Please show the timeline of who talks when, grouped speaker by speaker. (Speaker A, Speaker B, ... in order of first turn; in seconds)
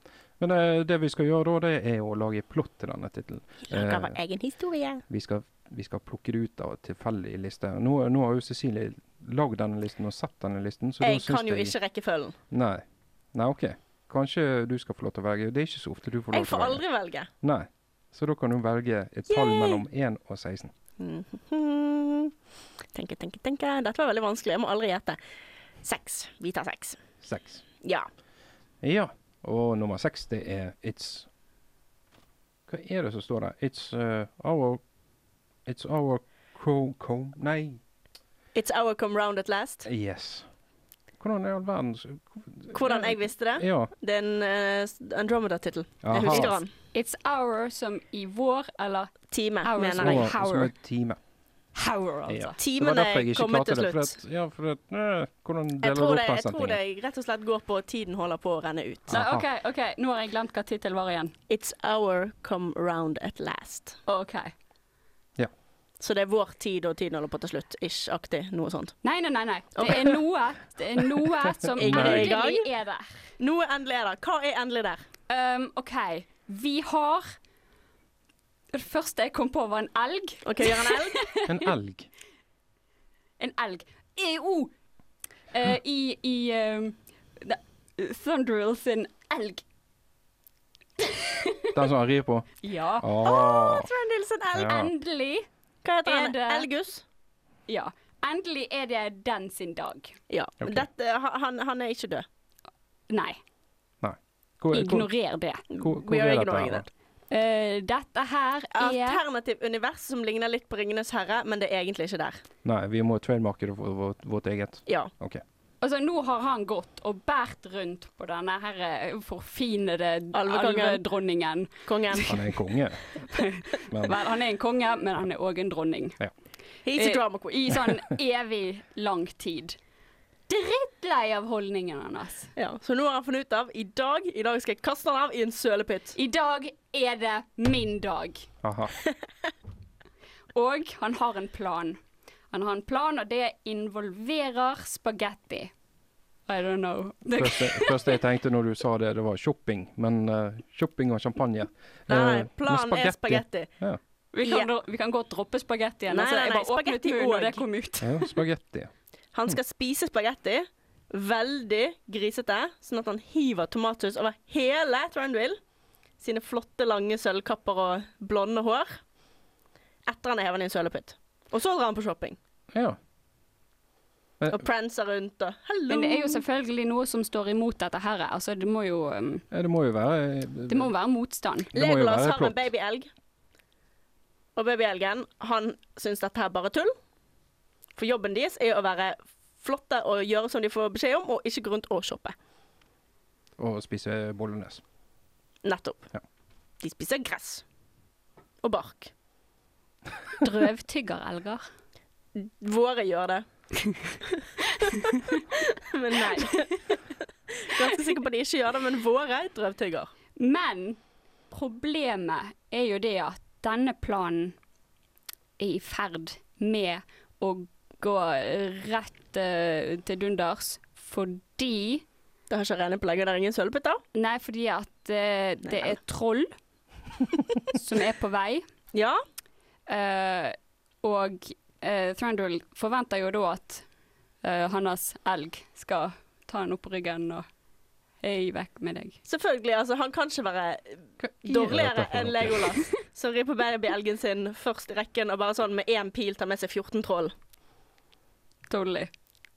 Speaker A: 0.4-4.2, 5.1-11.8, 12.5-16.8, 17.4-20.7, 27.2-27.6, 28.8-31.3, 32.7-34.8, 35.7-37.8, 39.9-40.5, 41.2-43.9, 46.0-46.6, 50.0-51.2, 52.3-56.8, 59.1-59.5, 71.8-72.3, 81.5-82.1, 91.7-92.5, 93.0-93.9, 94.5-94.9, 100.6-100.9, 104.0-105.1, 105.8-106.9, 112.7-115.4, 122.3-123.0, 123.9-124.2, 138.6-138.9, 147.3-154.0, 158.0-158.9, 172.7-173.0, 174.4-174.7, 179.5-180.9, 181.7-182.7, 193.6-194.8, 241.2-242.8
Speaker B: 3.7-5.0, 11.0-12.3, 16.3-17.3, 19.3-19.8, 21.0-22.3, 22.9-25.2, 25.8-27.0, 38.5-39.9, 42.7-46.7, 49.3-50.3, 52.6-54.2, 55.8-59.2, 61.5-64.0, 66.0-69.0, 69.8-70.2, 71.8-72.7, 73.4-75.1, 80.5-81.2, 93.2-94.8, 95.8-97.0, 100.3-102.2, 105.7-106.9, 108.8-112.4, 120.3-121.0, 121.9-122.3, 126.8-127.8, 132.6-136.2, 152.1-153.7, 154.4-154.7, 156.1-157.6, 159.3-165.6, 166.2-169.0, 170.1-172.4, 174.5-176.4, 181.7-183.1, 184.6-186.9, 188.0-192.3, 195.6-196.1, 196.8-197.6, 198.6-199.1, 202.3-203.4, 205.7-206.9, 207.5-210.1, 222.5-224.0, 225.7-225.9, 228.9-229.2, 239.3-247.3
Speaker C: 46.9-50.7, 51.8-52.6, 59.1-61.3, 64.1-64.5, 69.0-73.3, 75.3-77.4, 78.7-81.5, 83.4-84.7, 85.5-89.6, 91.0-91.7, 92.6-93.2, 94.6-95.5, 96.0-96.7, 97.7-100.2, 103.1-103.4, 104.7-105.6, 107.3-109.2, 115.8-122.3, 123.2-126.2, 127.0-129.8, 130.5-132.5, 136.2-138.5, 140.5-142.0, 142.5-145.7, 146.5-148.2, 154.3-158.4, 175.9-179.4, 180.7-181.7, 200.4-201.7, 203.8-204.1, 204.7-205.4, 210.4-214.6, 215.6-222.1, 224.2-226.5, 227.7-228.6, 229.9-233.8, 234.4-237.4, 238.2-239.2, 248.7-249.1